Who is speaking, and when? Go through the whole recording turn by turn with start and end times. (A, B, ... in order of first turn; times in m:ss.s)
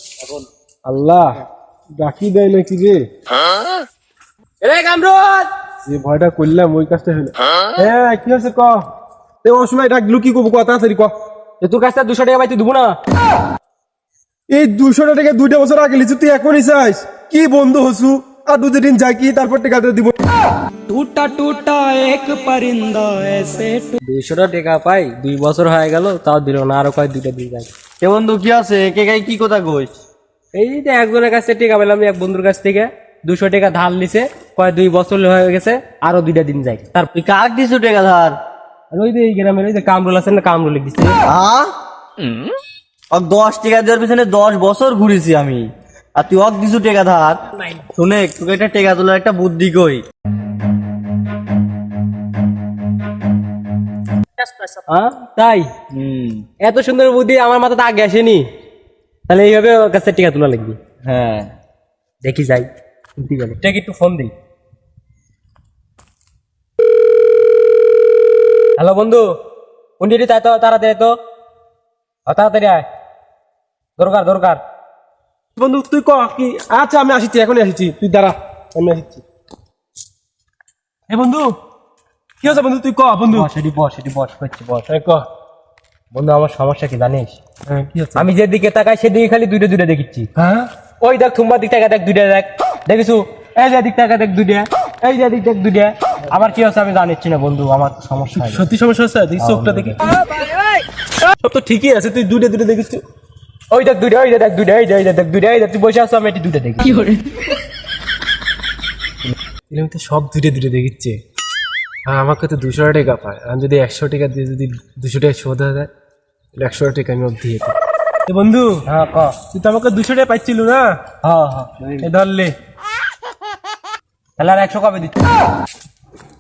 0:00.8-0:01.4 A
0:02.0-0:03.1 A
0:04.6-0:05.5 B
0:05.9-0:08.9 A
0:09.4-0:11.1 A
0:11.6-0:13.0 B
0:14.5-0:20.2 A
0:20.9-0:24.0 C
0:24.0-0:27.7 B
0:28.0-0:29.9 D
0:30.5-0:37.1 B
0:37.1-0:38.4 D
0:38.9-0:41.2 B
0:41.3-0:41.8 D
0:42.2-0:42.5 C
0:43.1-0:50.0 D
0:54.9-0:55.7 B
0:55.9-0:56.4 D
0:56.6-0:58.4 B
0:59.3-1:00.8 B
1:01.1-1:01.5 D
1:02.2-1:04.3 B
1:08.8-1:09.4 B
1:10.0-1:11.2 B
1:12.3-1:12.9 B
1:14.0-1:14.6 B
1:15.6-1:19.2 A
1:21.1-1:21.6 A
1:22.4-1:23.5 A
1:23.3-1:24.9 B
1:24.9-1:25.3 A
1:26.1-1:27.4 B
1:27.7-1:28.2 A
1:28.2-1:30.3 B
1:30.4-1:30.7 A
1:31.0-1:38.7 B
1:38.4-1:40.4 A
1:39.4-1:40.0 B
1:41.4-1:43.0 A
1:43.7-1:47.2 B
1:49.7-1:51.2 A
1:52.1-1:55.9 A
1:56.6-1:57.8 A
1:58.3-1:58.8 A
1:58.9-1:59.4 B
1:59.5-2:01.0 A
2:01.2-2:02.0 B
2:02.0-2:02.5 A
2:04.4-2:05.2 B